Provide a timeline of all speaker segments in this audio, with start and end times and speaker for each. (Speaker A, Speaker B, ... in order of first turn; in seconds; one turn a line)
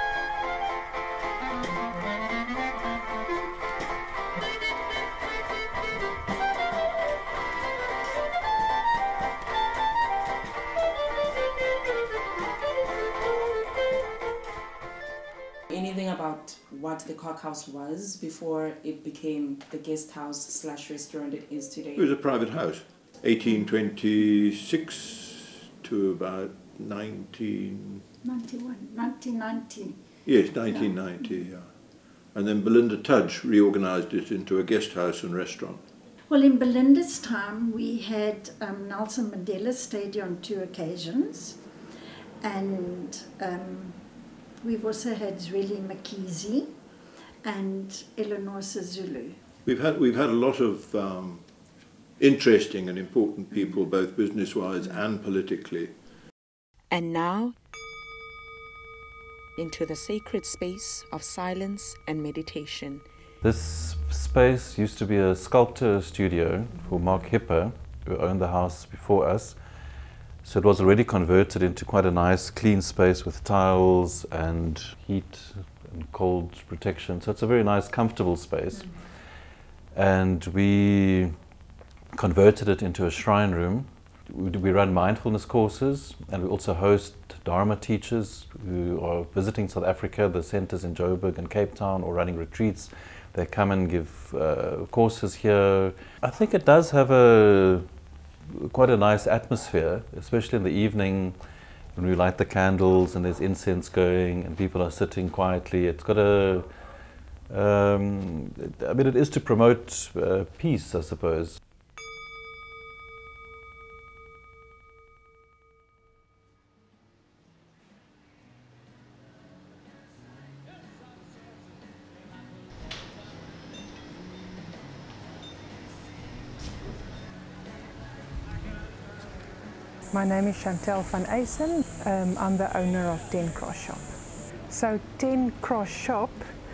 Speaker A: 15.7-22.1
Speaker B: 21.9-28.0
Speaker C: 28.2-31.4
Speaker B: 30.2-35.8
Speaker C: 36.2-41.7
Speaker C: 42.4-49.4
Speaker B: 49.6-51.5
Speaker B: 52.2-56.0
Speaker D: 56.9-57.5
Speaker D: 59.5-63.0
Speaker E: 63.4-69.6
Speaker E: 70.4-79.4
Speaker E: 79.9-81.3
Speaker E: 82.1-97.8
Speaker E: 98.5-101.4
Speaker E: 101.9-106.7
Speaker E: 107.5-111.6
Speaker F: 130.1-134.1
Speaker F: 134.7-136.5